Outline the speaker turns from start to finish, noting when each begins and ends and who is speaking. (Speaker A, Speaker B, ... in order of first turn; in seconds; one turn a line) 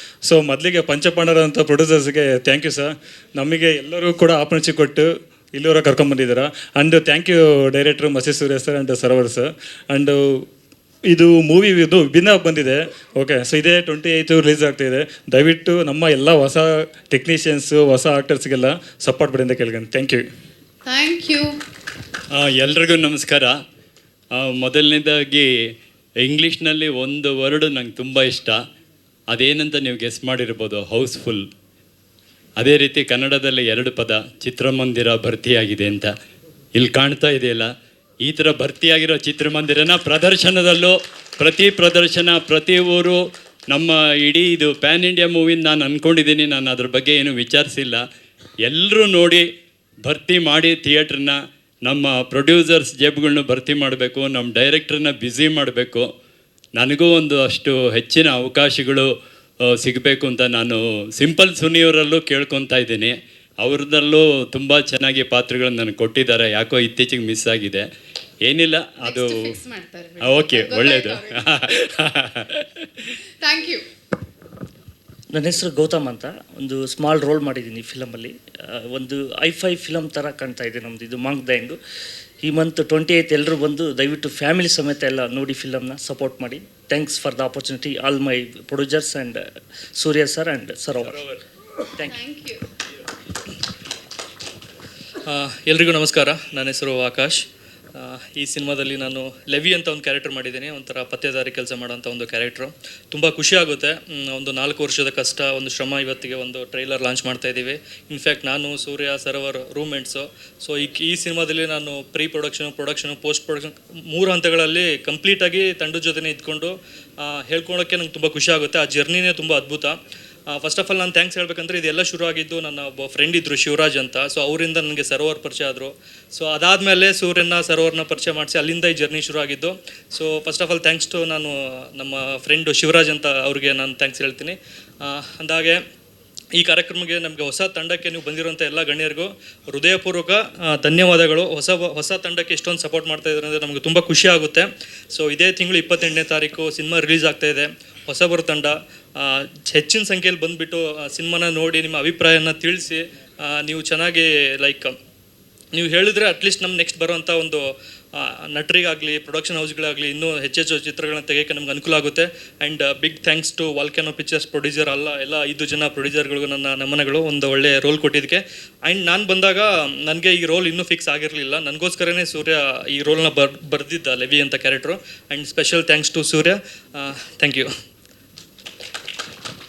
Speaker A: 0.2-10.4
Speaker A: 11.1-20.3
Speaker B: 20.8-21.6
Speaker C: 22.3-23.6
Speaker C: 24.3-25.5
Speaker C: 26.2-28.6
Speaker C: 29.3-31.4
Speaker C: 32.6-36.1
Speaker C: 36.8-37.7
Speaker C: 38.2-48.0
Speaker C: 48.6-49.5
Speaker C: 50.0-56.1
Speaker C: 56.8-59.1
Speaker C: 59.7-67.9
Speaker C: 68.4-69.6
Speaker B: 69.0-71.3
Speaker C: 70.2-72.6
Speaker B: 73.4-73.8
Speaker D: 75.3-81.8
Speaker D: 82.4-89.4
Speaker D: 90.0-91.2
Speaker B: 92.2-92.6
Speaker E: 95.3-97.4
Speaker E: 98.0-120.0
Speaker E: 120.5-135.8
Speaker E: 136.5-154.9
Speaker E: 155.7-177.7